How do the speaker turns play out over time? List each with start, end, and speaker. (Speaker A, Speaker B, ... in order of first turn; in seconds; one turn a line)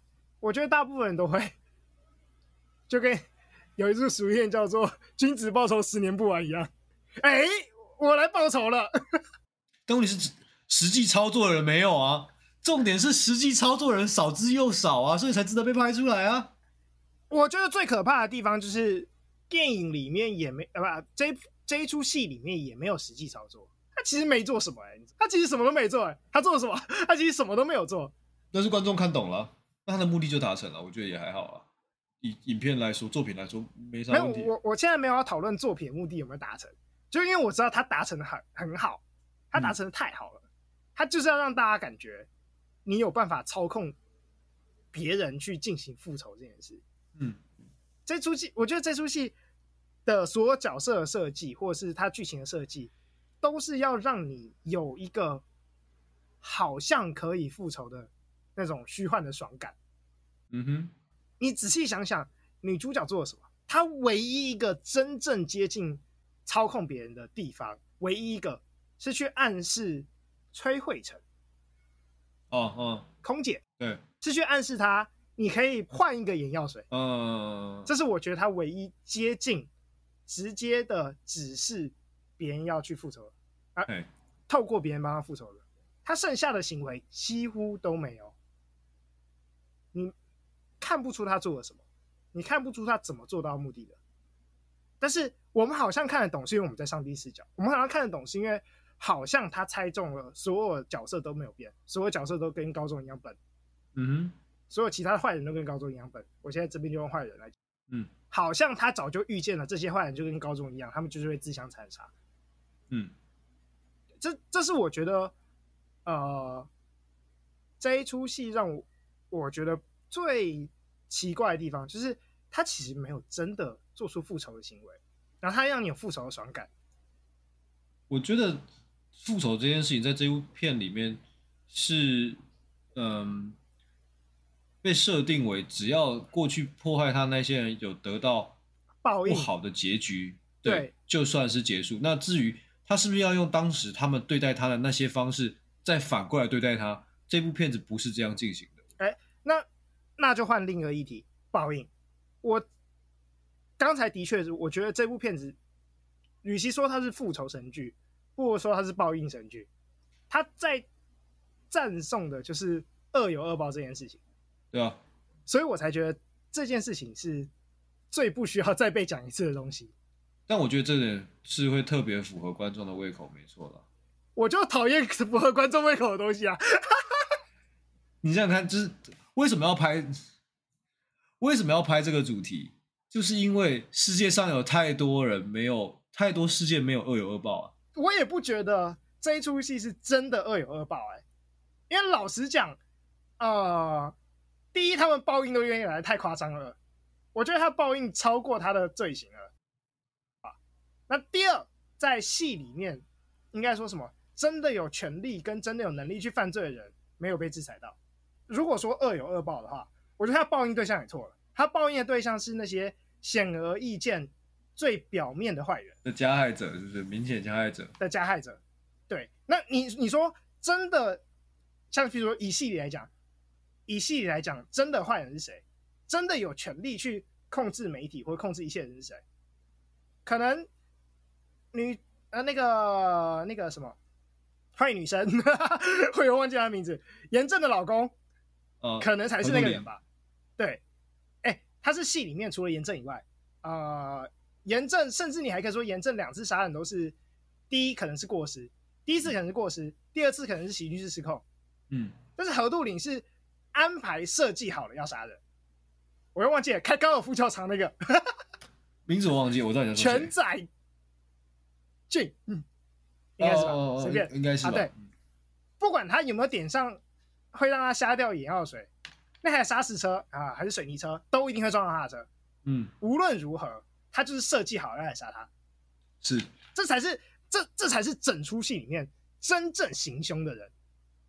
Speaker A: 0.4-1.5
Speaker A: 2.9-3.2
Speaker A: 3.8-6.7
Speaker A: 7.2-8.9
Speaker B: 9.9-16.5
Speaker A: 17.3-28.1
Speaker B: 28.5-31.7
Speaker B: 32.2-34.5
Speaker A: 34.1-40.4
Speaker A: 41.0-42.3
Speaker A: 42.9-44.0
Speaker A: 44.9-46.8
Speaker A: 48.1-49.4
Speaker A: 50.1-55.4
Speaker A: 56.4-59.8
Speaker B: 60.5-60.9
Speaker A: 61.4-71.2
Speaker B: 72.5-73.1
Speaker A: 73.2-73.6
Speaker A: 74.2-76.9
Speaker B: 76.9-77.9
Speaker A: 77.9-79.7
Speaker A: 80.3-83.9
Speaker A: 84.5-88.3
Speaker A: 90.8-91.8
Speaker A: 92.3-94.0
Speaker A: 95.0-103.4
Speaker B: 103.9-104.3
Speaker A: 104.7-107.5
Speaker A: 108.3-112.1
Speaker A: 114.2-115.3
Speaker A: 116.1-116.7
Speaker A: 117.8-126.7
Speaker B: 128.1-128.6
Speaker B: 129.1-132.4
Speaker B: 132.9-133.6
Speaker B: 134.8-138.6
Speaker A: 139.0-139.5
Speaker B: 139.3-148.8
Speaker A: 140.6-140.9
Speaker A: 149.0-149.7
Speaker A: 150.2-151.9
Speaker A: 153.8-155.6
Speaker A: 156.4-159.7
Speaker A: 160.3-160.9
Speaker A: 161.7-164.2
Speaker B: 164.7-165.0
Speaker A: 165.5-167.5
Speaker A: 168.1-169.9
Speaker B: 170.5-173.8
Speaker A: 174.4-177.0
Speaker B: 178.2-180.1
Speaker B: 181.4-187.7
Speaker A: 187.9-191.2
Speaker A: 191.9-192.8
Speaker A: 193.4-194.1
Speaker A: 194.7-196.8
Speaker A: 197.3-199.5
Speaker A: 201.1-207.9
Speaker A: 208.5-215.9
Speaker B: 216.0-217.9
Speaker A: 218.0-221.2
Speaker A: 221.9-223.1
Speaker A: 223.9-229.2
Speaker A: 230.3-230.7
Speaker A: 231.7-233.9
Speaker A: 234.8-238.1
Speaker B: 238.8-239.8
Speaker A: 239.0-240.0
Speaker A: 241.4-247.1
Speaker A: 247.7-251.4
Speaker B: 251.9-252.2
Speaker A: 252.4-255.4
Speaker A: 256.4-258.3
Speaker B: 259.1-260.3
Speaker A: 259.9-260.7
Speaker A: 262.1-262.6
Speaker A: 263.4-264.9
Speaker B: 263.4-264.9
Speaker A: 265.8-267.0
Speaker A: 267.5-268.9
Speaker A: 269.4-272.3
Speaker B: 272.6-272.9
Speaker A: 273.0-275.5
Speaker B: 276.2-276.5
Speaker A: 276.7-280.7